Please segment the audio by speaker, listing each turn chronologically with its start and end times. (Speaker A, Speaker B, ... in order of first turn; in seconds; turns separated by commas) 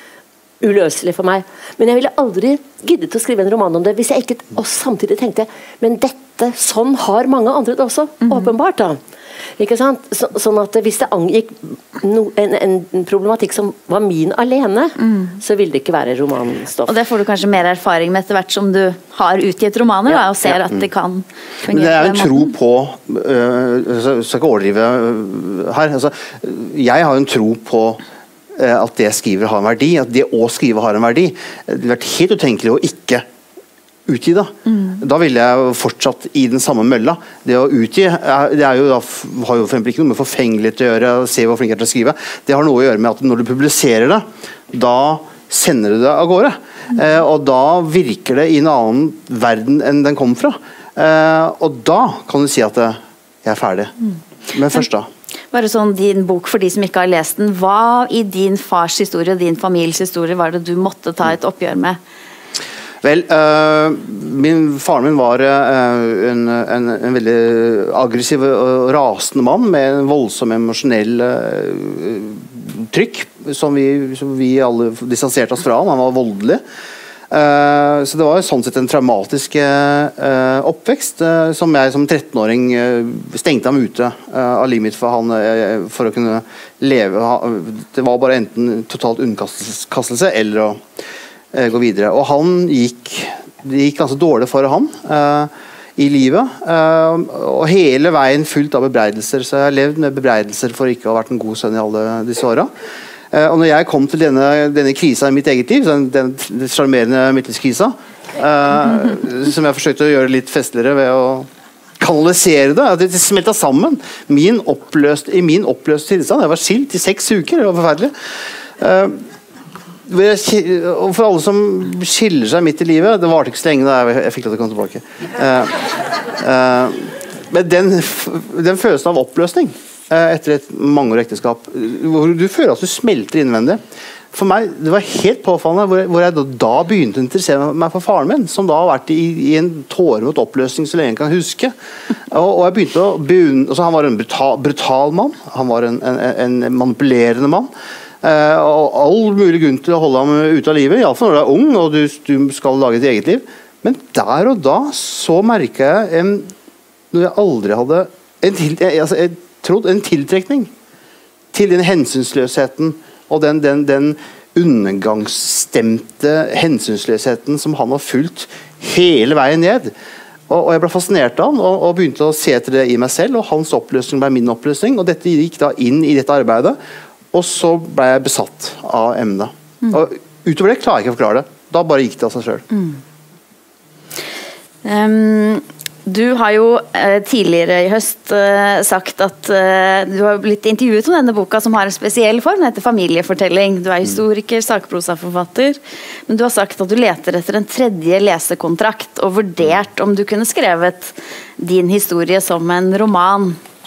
Speaker A: 0.6-9.0, Speaker B: 8.3-8.5, Speaker A: 9.6-16.9, Speaker B: 16.9-22.5, Speaker C: 20.2-20.9, Speaker C: 21.7-28.0, Speaker C: 28.5-33.2, Speaker C: 34.1-54.0, Speaker C: 54.5-55.1, Speaker B: 55.5-62.0, Speaker C: 63.0-76.6, Speaker C: 77.3-90.8, Speaker C: 91.5-102.7, Speaker C: 103.3-111.5, Speaker C: 112.0-118.1, Speaker C: 118.8-119.2, Speaker C: 120.1-125.8, Speaker C: 126.4-133.8, Speaker C: 134.3-141.7, Speaker C: 142.3-147.7, Speaker C: 148.2-156.5, Speaker C: 157.1-160.7, Speaker C: 161.5-169.9, Speaker C: 170.5-176.8, Speaker C: 177.3-182.7, Speaker B: 184.8-203.6